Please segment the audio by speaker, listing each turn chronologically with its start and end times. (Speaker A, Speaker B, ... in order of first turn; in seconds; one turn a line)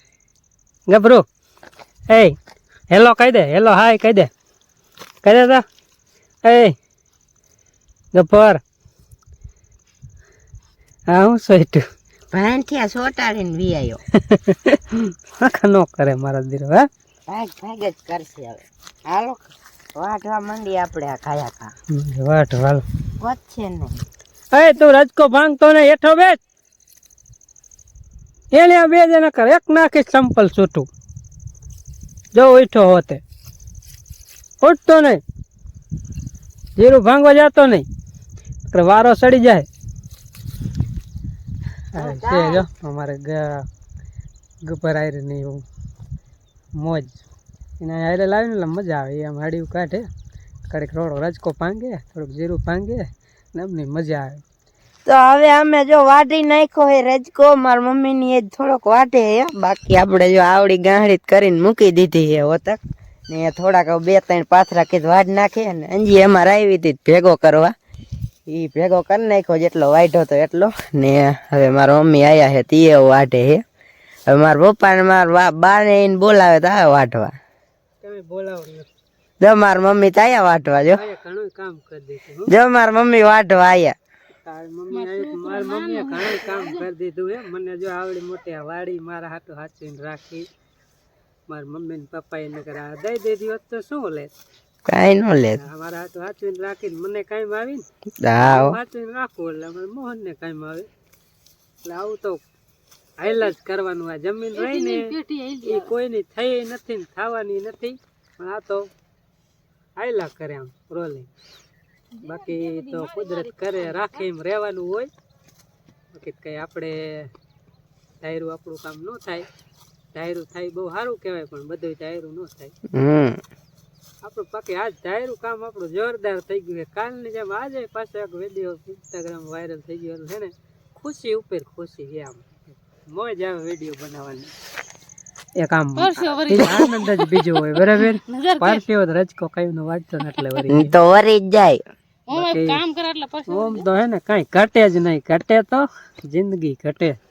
Speaker A: 0.9-1.2
Speaker A: 2.1-2.4
Speaker A: 2.9-4.3
Speaker A: 5.2-5.6
Speaker A: 6.4-6.8
Speaker A: 8.1-8.6
Speaker A: 11.1-11.8
Speaker B: 12.3-14.0
Speaker A: 14.2-16.9
Speaker B: 17.3-21.7
Speaker A: 21.9-22.8
Speaker B: 23.2-24.0
Speaker A: 24.5-26.4
Speaker A: 28.5-30.9
Speaker A: 32.3-33.2
Speaker A: 34.6-35.2
Speaker A: 36.8-37.9
Speaker A: 38.7-39.6
Speaker A: 41.9-43.6
Speaker B: 42.0-42.6
Speaker A: 44.6-45.6
Speaker A: 46.7-47.2
Speaker A: 47.8-50.1
Speaker A: 50.7-54.4
Speaker B: 55.0-67.7
Speaker B: 68.5-73.6
Speaker B: 74.3-77.3
Speaker A: 78.0-78.9
Speaker B: 79.4-81.0
Speaker A: 80.9-82.5
Speaker B: 82.5-83.9
Speaker A: 84.4-90.5
Speaker C: 84.9-86.8
Speaker A: 91.5-94.3
Speaker B: 94.8-95.6
Speaker A: 95.5-97.8
Speaker B: 98.2-98.8
Speaker A: 98.4-100.9
Speaker A: 101.8-102.4
Speaker A: 103.2-105.1
Speaker C: 104.5-105.9
Speaker A: 105.6-108.9
Speaker A: 110.0-111.3
Speaker C: 112.1-114.2
Speaker A: 112.2-115.1
Speaker A: 116.1-117.3
Speaker A: 118.2-119.5
Speaker A: 120.1-122.7
Speaker B: 122.9-123.4
Speaker A: 124.2-134.5
Speaker A: 135.6-140.9
Speaker C: 136.0-138.8
Speaker C: 140.3-140.6
Speaker B: 140.7-141.8
Speaker C: 142.3-143.8
Speaker A: 142.3-142.8
Speaker A: 143.5-147.2